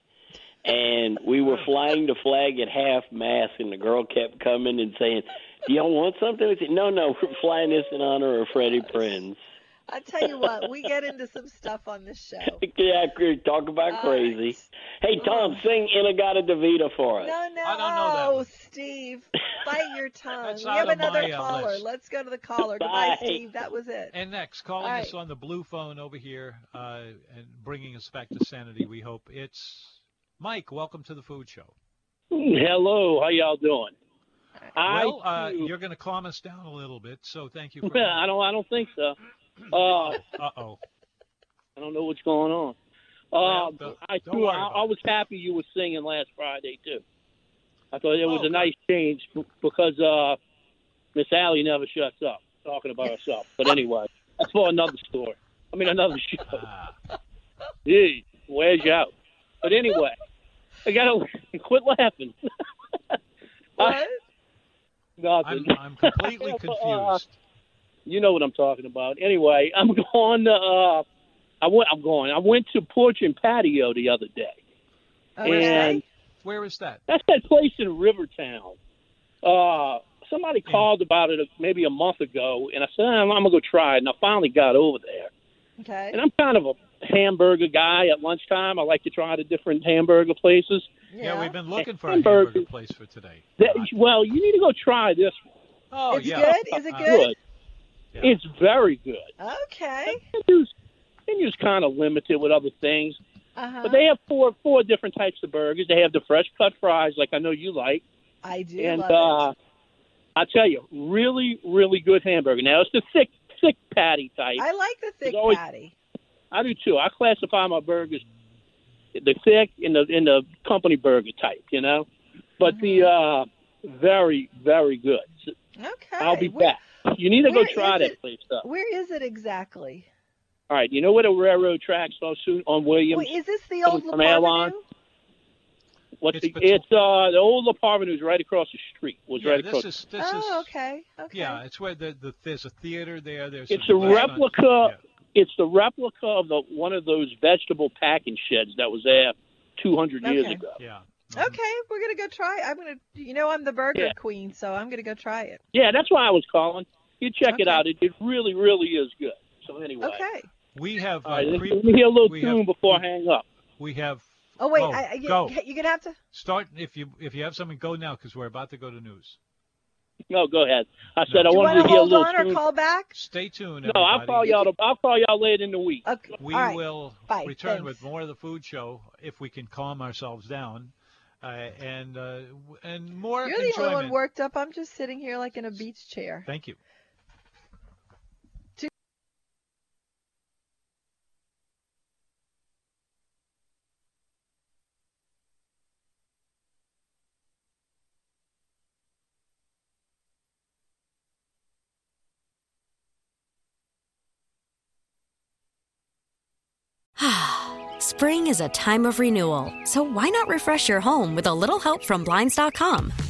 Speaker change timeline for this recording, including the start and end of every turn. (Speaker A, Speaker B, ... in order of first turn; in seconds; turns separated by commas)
Speaker A: 0.7-9.4, Speaker B: 1.4-1.7, Speaker C: 9.9-12.6, Speaker A: 12.6-17.4, Speaker C: 13.9-14.7, Speaker C: 15.2-15.6, Speaker C: 17.2-24.1, Speaker B: 17.6-18.5, Speaker B: 20.4-21.9, Speaker A: 22.7-23.4, Speaker B: 24.1-31.8, Speaker C: 24.8-25.1, Speaker D: 32.3-33.9, Speaker D: 34.8-35.7, Speaker B: 34.8-38.2, Speaker D: 37.8-39.2, Speaker D: 39.7-40.3, Speaker B: 40.1-40.8, Speaker D: 41.8-42.8, Speaker D: 43.3-47.0, Speaker B: 43.4-44.9, Speaker D: 47.9-50.4, Speaker B: 48.2-48.7, Speaker D: 51.1-56.6, Speaker B: 56.5-57.0, Speaker D: 57.9-60.2, Speaker D: 60.9-62.4, Speaker C: 63.8-64.2, Speaker D: 65.2-67.2, Speaker B: 65.4-67.4, Speaker D: 68.1-71.1, Speaker D: 71.6-74.6, Speaker C: 75.4-76.0, Speaker D: 75.4-76.0, Speaker B: 75.5-77.0, Speaker D: 77.1-78.8, Speaker D: 79.4-85.3, Speaker C: 85.8-86.2, Speaker D: 86.1-90.9, Speaker C: 91.1-91.6, Speaker B: 91.2-93.9, Speaker D: 91.8-92.7, Speaker D: 93.6-95.5, Speaker B: 95.9-97.2, Speaker C: 96.1-97.3, Speaker D: 96.2-97.4, Speaker D: 98.2-99.3, Speaker C: 99.4-100.2, Speaker D: 100.1-100.7, Speaker D: 101.3-103.2, Speaker C: 103.6-104.0, Speaker D: 103.8-108.0, Speaker C: 108.4-109.5, Speaker D: 108.8-109.5, Speaker D: 110.4-114.6, Speaker C: 114.6-116.0, Speaker D: 115.2-115.6, Speaker D: 116.5-118.2, Speaker D: 119.1-122.1, Speaker D: 122.6-125.5, Speaker C: 122.7-123.1, Speaker C: 125.8-126.8, Speaker D: 126.2-128.6, Speaker C: 127.4-130.1, Speaker D: 130.7-133.3, Speaker C: 133.1-134.8, Speaker D: 133.9-134.7, Speaker D: 136.2-139.9, Speaker B: 136.3-136.8, Speaker B: 139.4-140.7, Speaker C: 140.2-141.6, Speaker B: 141.3-145.0, Speaker D: 143.7-150.8, Speaker C: 144.0-144.3, Speaker C: 150.2-150.6, Speaker B: 150.8-151.6, Speaker C: 151.3-155.6, Speaker D: 155.7-160.2, Speaker C: 157.5-157.8, Speaker C: 160.0-160.5, Speaker B: 160.8-163.0, Speaker D: 161.2-163.5, Speaker B: 163.8-165.6, Speaker C: 164.6-166.2, Speaker B: 166.3-169.4, Speaker D: 170.3-172.6, Speaker B: 171.3-172.0, Speaker C: 171.5-173.1, Speaker B: 173.1-174.7, Speaker D: 173.8-176.0, Speaker C: 176.1-178.0, Speaker B: 176.4-184.2, Speaker C: 183.4-186.5, Speaker B: 186.5-186.8, Speaker E: 207.2-213.1